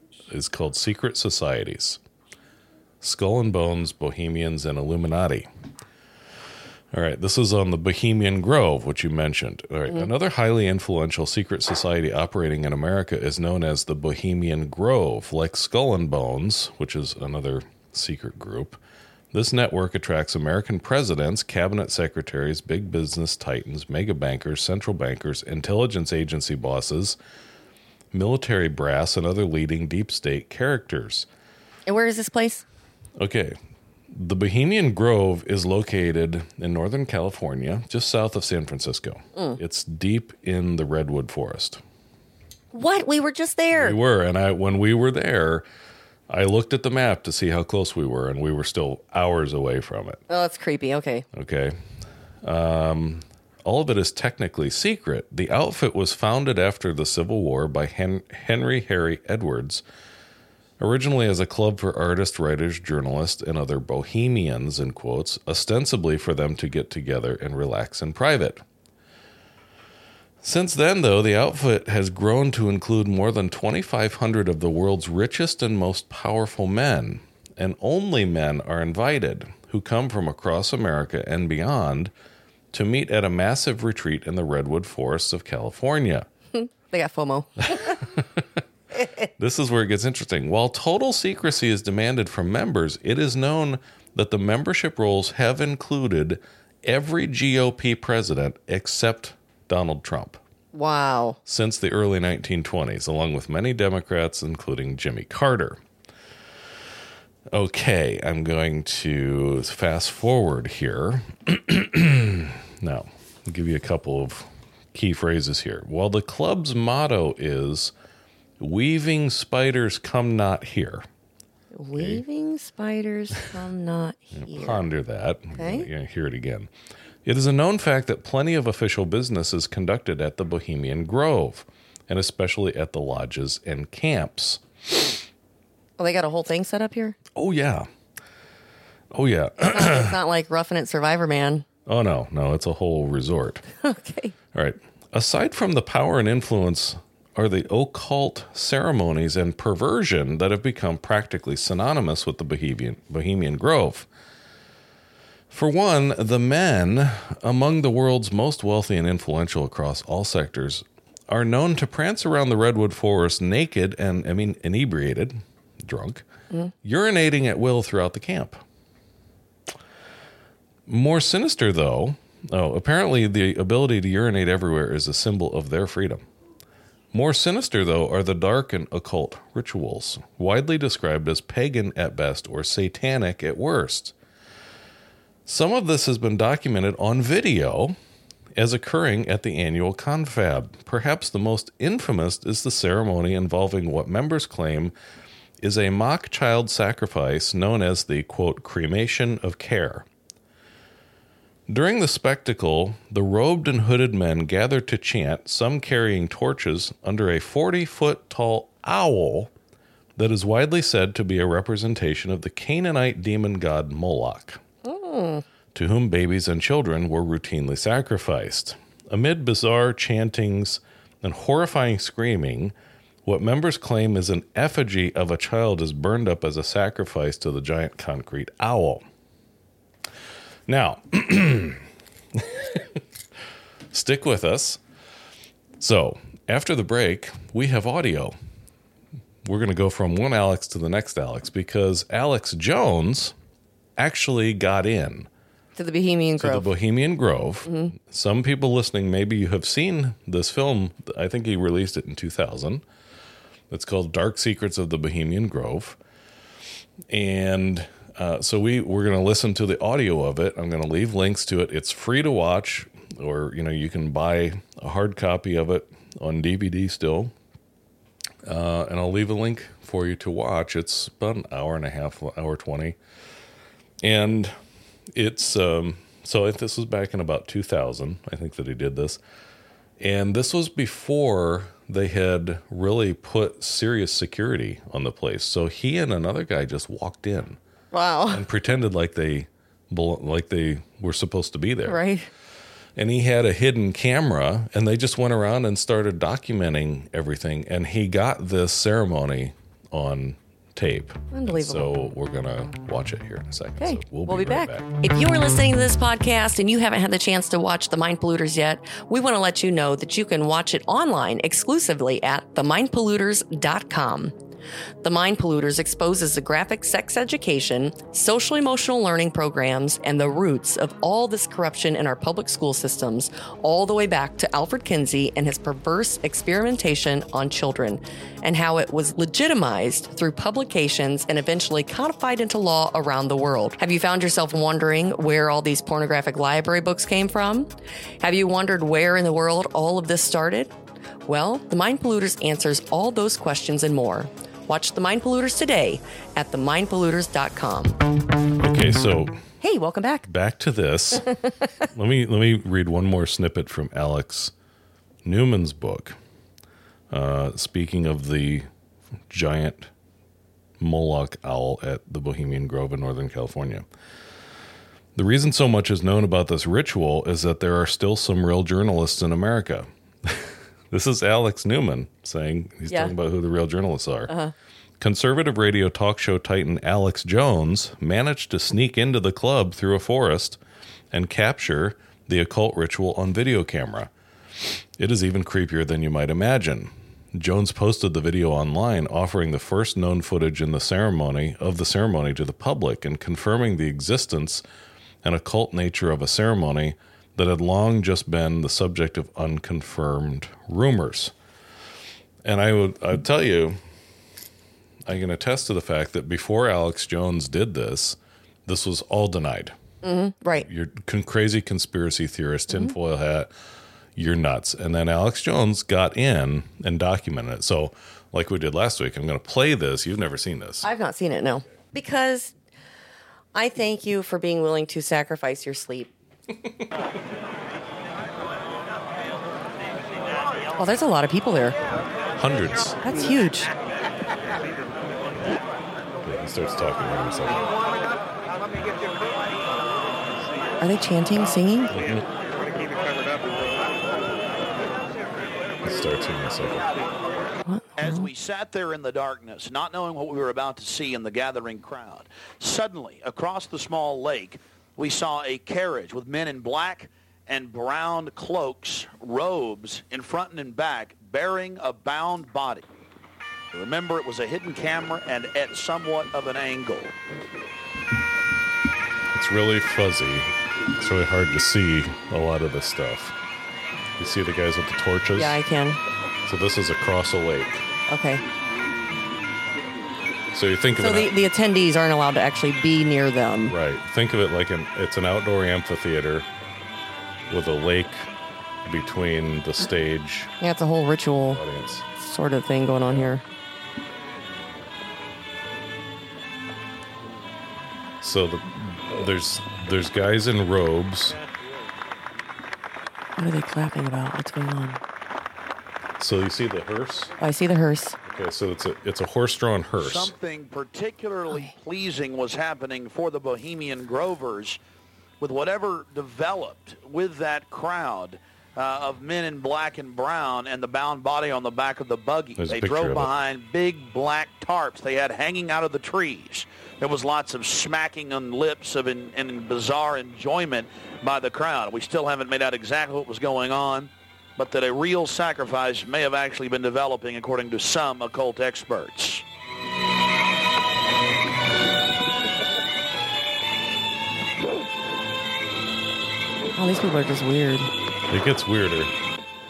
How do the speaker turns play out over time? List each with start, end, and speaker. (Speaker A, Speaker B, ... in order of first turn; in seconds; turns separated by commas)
Speaker A: 0.3-2.0, Speaker A: 3.0-5.5, Speaker A: 6.9-18.8, Speaker A: 19.3-27.2, Speaker A: 28.1-31.2, Speaker B: 31.9-32.6, Speaker A: 33.2-33.5, Speaker A: 34.1-41.8, Speaker B: 42.7-44.0, Speaker A: 43.7-45.6, Speaker A: 46.3-50.2, Speaker B: 50.3-51.2, Speaker A: 51.3-51.8, Speaker A: 52.4-59.8, Speaker A: 60.8-68.6, Speaker A: 70.4-82.1, Speaker A: 82.7-86.3, Speaker B: 86.5-88.0, Speaker A: 89.4-100.4, Speaker B: 100.7-101.4, Speaker A: 101.5-105.8, Speaker A: 107.5-117.9, Speaker A: 118.6-121.0, Speaker B: 121.7-124.8, Speaker A: 121.9-122.2, Speaker A: 124.3-126.7, Speaker B: 125.5-125.9, Speaker A: 127.2-134.6, Speaker B: 136.0-137.2, Speaker A: 137.3-137.9, Speaker A: 139.1-140.2, Speaker B: 139.7-141.7, Speaker A: 141.8-143.6, Speaker B: 143.8-144.3, Speaker A: 144.5-154.1, Speaker A: 155.5-166.2, Speaker A: 166.8-168.6, Speaker A: 170.9-176.2, Speaker A: 177.1-184.1, Speaker A: 185.4-187.9, Speaker A: 188.6-194.9, Speaker A: 195.6-200.1, Speaker A: 201.7-209.5, Speaker A: 210.2-214.6, Speaker B: 214.8-215.4, Speaker A: 215.7-222.7, Speaker A: 223.2-229.0, Speaker A: 230.7-231.8, Speaker A: 232.3-233.0, Speaker A: 233.9-234.8, Speaker A: 235.8-238.3, Speaker A: 239.4-243.3, Speaker A: 244.0-245.3, Speaker B: 245.8-246.7, Speaker A: 246.4-252.8, Speaker B: 247.7-247.9, Speaker A: 253.7-256.0, Speaker A: 257.1-267.3, Speaker A: 268.4-273.0, Speaker A: 274.0-274.5, Speaker A: 275.1-279.2, Speaker A: 280.0-287.6, Speaker B: 287.9-288.4, Speaker A: 288.3-292.0, Speaker B: 291.9-292.3, Speaker A: 293.0-304.9, Speaker B: 301.3-301.9, Speaker B: 303.8-314.4, Speaker B: 315.0-340.7, Speaker B: 341.2-348.0, Speaker A: 348.6-349.4, Speaker B: 349.6-350.3, Speaker A: 350.3-354.5, Speaker A: 355.2-356.2, Speaker A: 357.1-358.7, Speaker A: 359.3-359.9, Speaker A: 360.8-363.9, Speaker A: 365.1-374.3, Speaker B: 372.9-373.1, Speaker B: 374.3-374.5, Speaker A: 375.0-380.6, Speaker A: 381.1-384.1, Speaker A: 385.0-394.6, Speaker A: 395.2-401.3, Speaker A: 402.4-403.8, Speaker A: 405.1-409.8, Speaker B: 410.0-410.7, Speaker A: 410.6-413.5, Speaker A: 414.1-420.9, Speaker B: 420.8-422.5, Speaker B: 423.5-426.1, Speaker B: 430.8-431.8, Speaker A: 432.4-433.0, Speaker B: 433.0-433.7, Speaker A: 436.2-437.7, Speaker B: 440.8-441.9, Speaker A: 441.9-442.3, Speaker A: 445.8-447.0, Speaker B: 447.7-448.2, Speaker C: 448.0-462.9, Speaker C: 463.7-467.1, Speaker A: 469.3-473.3, Speaker A: 474.2-475.6, Speaker B: 475.3-476.0, Speaker A: 476.4-477.9, Speaker B: 478.1-478.4, Speaker A: 480.5-481.4, Speaker B: 480.9-483.7, Speaker A: 483.7-486.5, Speaker A: 487.5-488.3, Speaker A: 488.8-490.5, Speaker B: 490.6-491.6, Speaker A: 491.5-492.0, Speaker B: 492.1-493.4, Speaker A: 498.2-501.4, Speaker B: 503.4-505.0, Speaker A: 506.2-507.3, Speaker B: 507.4-508.2, Speaker A: 508.2-510.3, Speaker C: 510.0-514.8, Speaker C: 515.4-539.4, Speaker A: 522.6-523.3, Speaker B: 546.8-547.9, Speaker A: 548.3-549.1